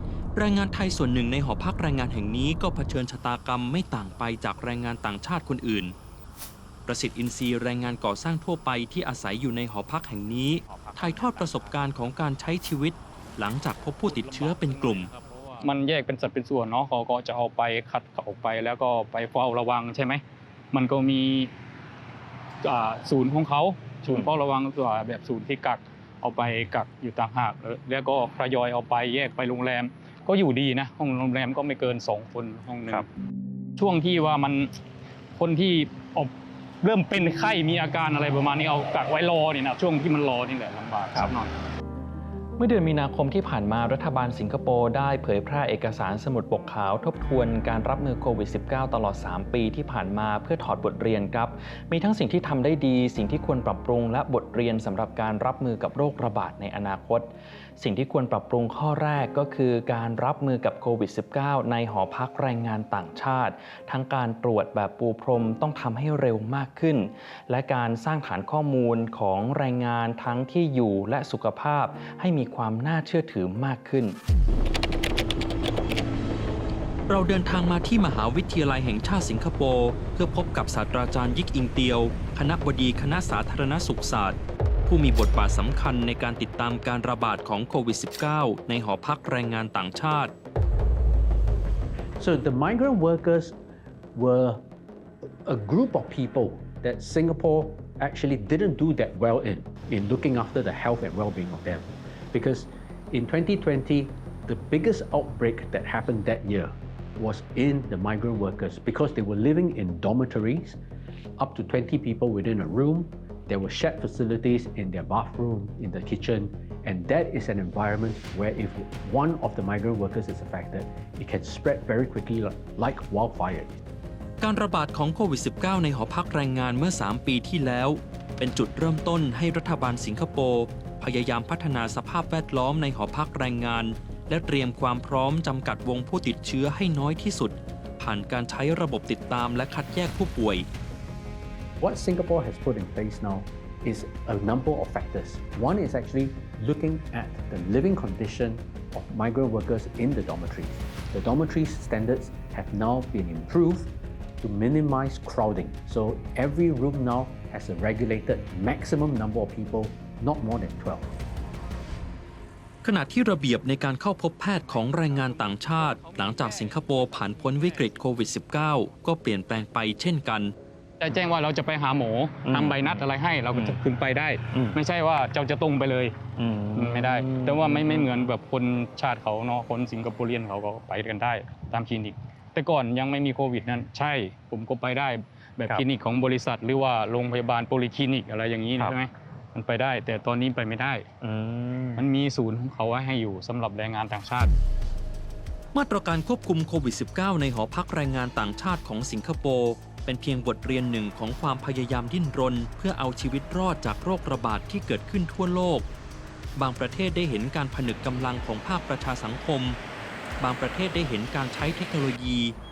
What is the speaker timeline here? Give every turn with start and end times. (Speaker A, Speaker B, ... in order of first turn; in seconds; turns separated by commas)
Speaker A: 0.4-6.0, Speaker A: 6.9-15.1, Speaker B: 10.7-11.8, Speaker C: 14.2-21.5, Speaker C: 22.6-33.1, Speaker C: 33.8-34.7, Speaker C: 35.4-41.5, Speaker B: 42.6-74.2, Speaker A: 77.1-90.3, Speaker D: 92.2-93.5, Speaker D: 94.2-94.6, Speaker D: 95.5-110.8, Speaker D: 111.4-123.8, Speaker A: 124.4-140.7, Speaker D: 141.8-153.9, Speaker D: 154.4-161.2, Speaker A: 162.8-170.5, Speaker C: 171.0-176.2, Speaker B: 172.5-173.0, Speaker B: 174.5-174.8, Speaker B: 176.4-178.1, Speaker C: 176.8-191.1, Speaker B: 191.2-192.0, Speaker C: 192.0-194.6, Speaker A: 195.7-205.9, Speaker A: 206.6-209.8, Speaker A: 210.4-212.6